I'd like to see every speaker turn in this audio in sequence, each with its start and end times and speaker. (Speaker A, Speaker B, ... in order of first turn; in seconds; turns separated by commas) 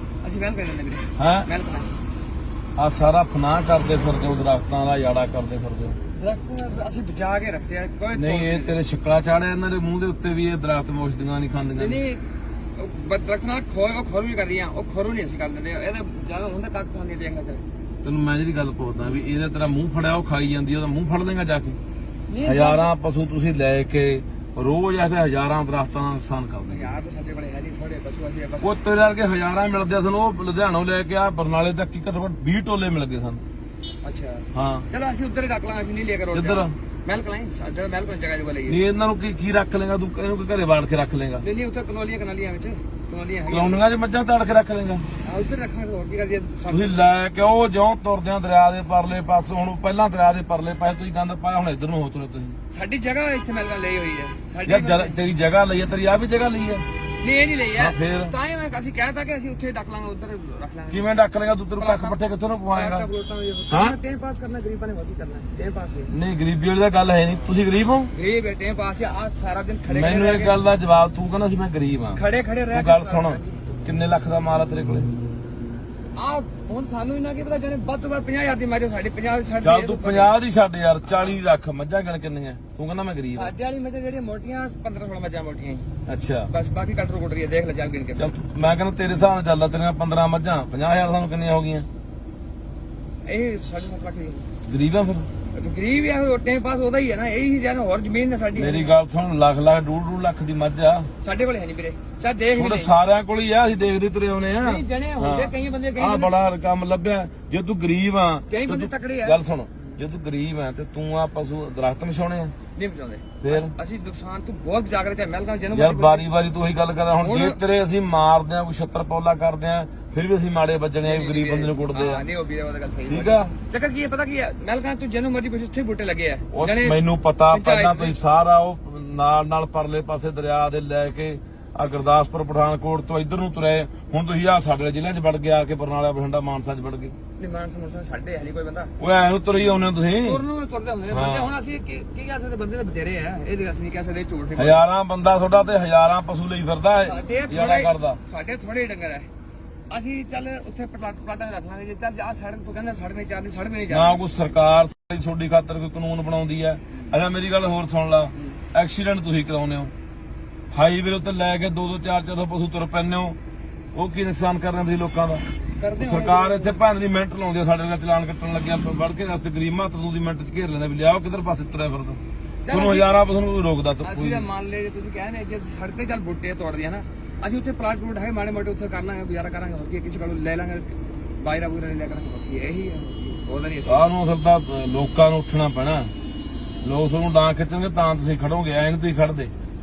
Speaker A: 0.2-1.9, Speaker B: 1.2-1.5, Speaker B: 2.8-6.0, Speaker A: 6.1-8.8, Speaker B: 8.1-12.0, Speaker A: 11.8-12.2, Speaker A: 12.8-17.6, Speaker B: 18.0-21.8, Speaker A: 22.3-22.9, Speaker B: 22.4-26.9, Speaker A: 26.7-28.7, Speaker B: 28.6-33.4, Speaker A: 34.0-38.8, Speaker B: 34.5-34.9, Speaker B: 36.3-36.7, Speaker B: 38.7-41.4, Speaker A: 41.4-43.8, Speaker B: 43.5-45.0, Speaker A: 45.2-47.1, Speaker B: 46.7-52.6, Speaker A: 52.7-55.2, Speaker B: 54.6-56.9, Speaker A: 57.2-61.1, Speaker B: 57.8-58.3, Speaker B: 60.9-63.1, Speaker A: 61.8-62.2, Speaker A: 62.7-66.1, Speaker B: 63.7-64.0, Speaker B: 66.1-68.1, Speaker A: 68.1-70.5, Speaker B: 69.9-75.1, Speaker A: 72.1-73.8, Speaker A: 76.1-80.3, Speaker B: 79.6-83.5, Speaker A: 81.1-81.4, Speaker A: 83.3-85.8, Speaker B: 86.0-86.5, Speaker A: 86.5-88.3, Speaker B: 88.2-91.9, Speaker A: 93.2-94.5, Speaker B: 94.7-95.3, Speaker A: 95.5-98.9, Speaker B: 98.5-101.1, Speaker A: 101.2-102.9, Speaker B: 102.5-112.5, Speaker A: 104.6-106.4, Speaker A: 108.5-109.4, Speaker A: 112.7-116.3, Speaker B: 113.4-113.7, Speaker B: 115.7-122.2, Speaker A: 117.2-117.6, Speaker A: 121.0-127.0, Speaker B: 123.1-123.5, Speaker B: 126.5-137.2, Speaker A: 127.5-128.2, Speaker A: 137.4-138.9, Speaker B: 139.0-140.4, Speaker A: 140.2-144.8, Speaker B: 141.1-141.5, Speaker B: 144.6-148.2, Speaker A: 147.0-149.3, Speaker A: 149.9-154.2, Speaker B: 153.9-159.9, Speaker B: 160.7-163.3, Speaker B: 163.9-165.4, Speaker A: 165.8-166.8, Speaker B: 166.0-174.4, Speaker A: 172.6-173.2, Speaker A: 174.0-184.1, Speaker B: 183.8-186.1, Speaker B: 186.8-189.5